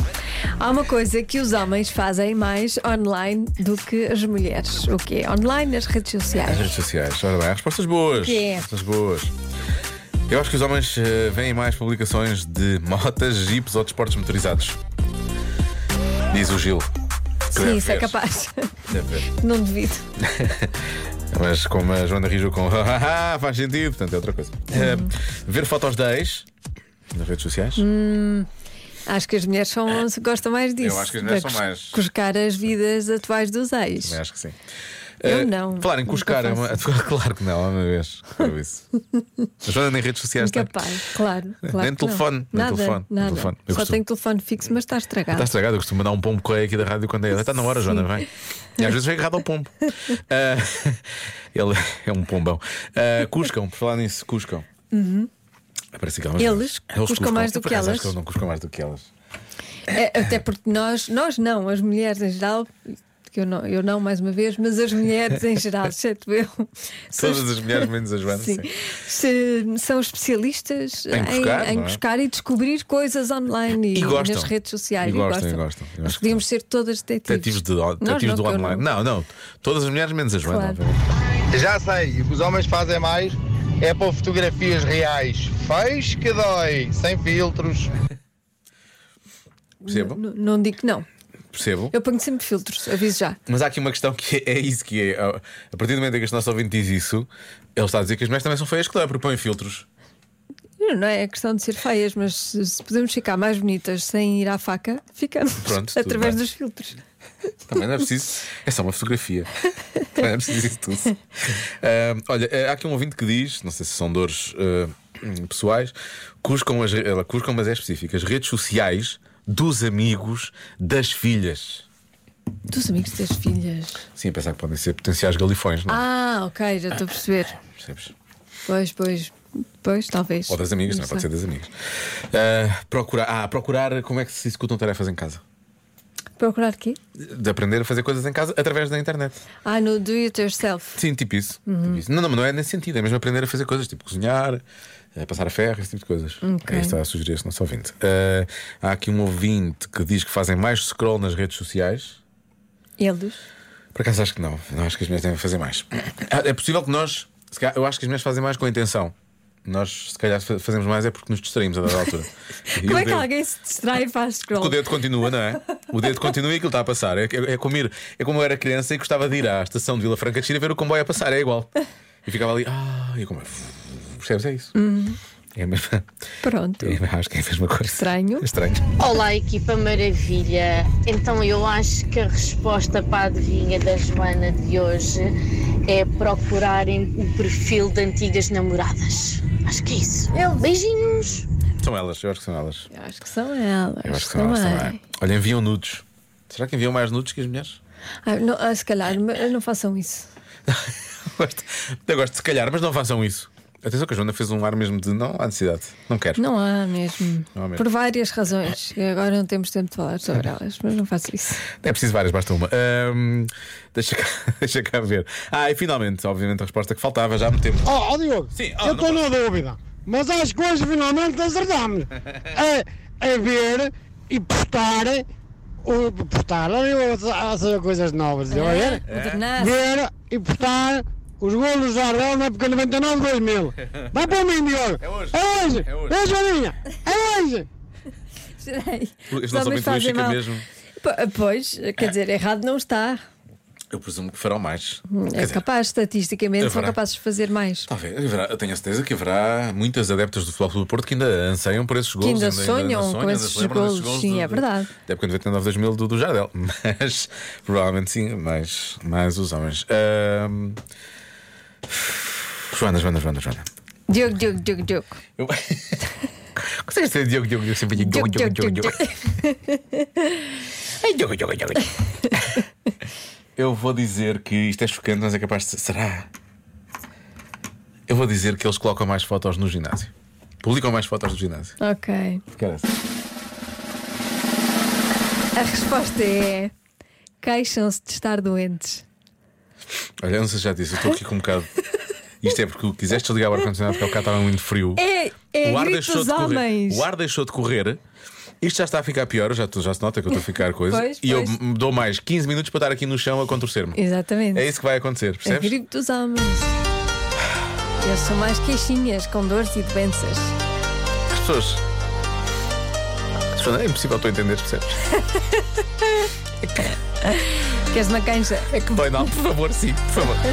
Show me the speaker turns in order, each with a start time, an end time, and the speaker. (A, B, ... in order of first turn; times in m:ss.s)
0:00.6-0:06.8 A
0:06.4-0:09.3 B
0:08.1-0:08.7 A
0:10.3-0:14.8 B
0:16.3-0:16.9 B
0:17.5-0:20.1 A
0:17.5-0:18.2 B
0:18.9-0:19.3 B
0:20.2-0:20.7 B
0:21.3-0:26.5 B
0:24.7-0:25.1 A
0:27.1-0:27.8 B
0:27.8-0:28.5 A
0:29.1-0:34.2 A
0:30.8-0:32.8 B
0:34.0-0:34.6 B
0:35.2-0:38.8 B
0:35.2-0:37.0 A
0:39.6-0:40.8 B
0:40.4-0:45.6 A
0:41.6-0:44.0 B
0:45.3-0:48.3 B
0:47.3-0:48.2 A
0:48.8-0:49.7 B
0:50.3-0:51.0 B
0:51.6-0:54.7 B
0:54.9-0:55.3 A
0:56.0-0:59.1 B
0:56.4-0:58.2 A
0:59.9-1:02.8 A
1:03.3-1:18.9 A
1:07.2-1:08.7 B
1:11.1-1:12.0 B
1:13.9-1:16.4 B
1:17.3-1:21.0 B
1:20.4-1:20.8 A
1:21.5-1:27.8 C
1:29.8-1:31.1 A
1:29.9-1:30.2 B
1:31.5-1:32.0 B
1:31.9-1:33.4 A
1:33.5-1:39.9 B
1:40.8-1:47.0 A
1:45.6-1:46.4 B
1:47.7-1:49.5 B
1:50.2-1:51.1 B
1:51.8-2:01.8 B
2:02.7-2:04.0 A
2:04.1-2:06.0 B
2:05.9-2:07.6 A
2:07.6-2:08.1 B
2:08.7-2:11.3 A
2:10.5-2:11.7 B
2:12.3-2:15.4 B
2:16.4-2:17.0 A
2:17.2-2:19.4 B
2:19.6-2:21.0 A
2:21.0-2:24.6 B
2:21.6-2:22.0 A
2:25.2-2:32.2 B
2:26.4-2:27.0 A
2:33.0-2:33.4 A
2:34.0-2:39.1 B
2:39.7-2:43.3 B
2:41.9-2:42.2 A
2:42.7-2:45.9 A
2:44.5-2:51.7 B
2:52.3-2:54.8 B
2:54.8-2:55.2 A
2:55.6-2:56.0 B
2:56.4-2:57.0 A
2:56.8-2:58.8 B
2:57.8-2:58.5 A
2:59.0-3:05.3 D
3:05.9-3:11.4 D
3:11.1-3:12.9 B
3:12.9-3:15.0 A
3:14.0-3:17.8 B
3:18.2-3:20.3 A
3:20.7-3:26.4 B
3:26.4-3:31.7 A
3:27.6-3:27.8 B
3:31.7-3:37.9 B
3:37.8-3:45.2 E
3:38.5-3:39.3 B
3:45.8-3:49.0 E
3:48.5-3:49.8 A
3:49.1-3:49.4 B
3:49.6-3:57.7 E
3:55.0-3:56.2 B
3:58.6-4:03.2 A
3:59.3-4:00.6 B
4:03.9-4:05.6 B
4:05.1-4:07.9 A
4:06.6-4:07.0 B
4:07.9-4:20.8 B
4:12.2-4:15.0 A
4:21.9-4:23.7 B
4:24.1-4:25.2 A
4:25.4-4:26.0 B
4:26.8-4:29.0 B
4:27.9-4:30.4 A
4:31.0-4:31.8 B
4:33.6-4:36.3 B
4:38.1-4:40.1 B
4:40.6-4:41.7 B
4:41.8-4:42.4 A
4:42.5-4:42.9 B
4:45.6-4:46.7 A
4:47.4-4:49.0 A
4:50.2-4:51.7 B
4:52.4-4:55.0 B
4:53.9-4:54.3 A
4:55.0-4:57.1 A
4:55.6-4:58.0 B
4:58.6-5:04.0 B
5:00.3-5:01.6 A
5:04.0-5:04.7 A
5:04.5-5:05.8 B
5:05.4-5:06.8 A
5:08.0-5:10.6 A
5:11.3-5:11.8 B
5:13.5-5:15.0 B
5:16.7-5:19.2 A
5:18.7-5:20.4 B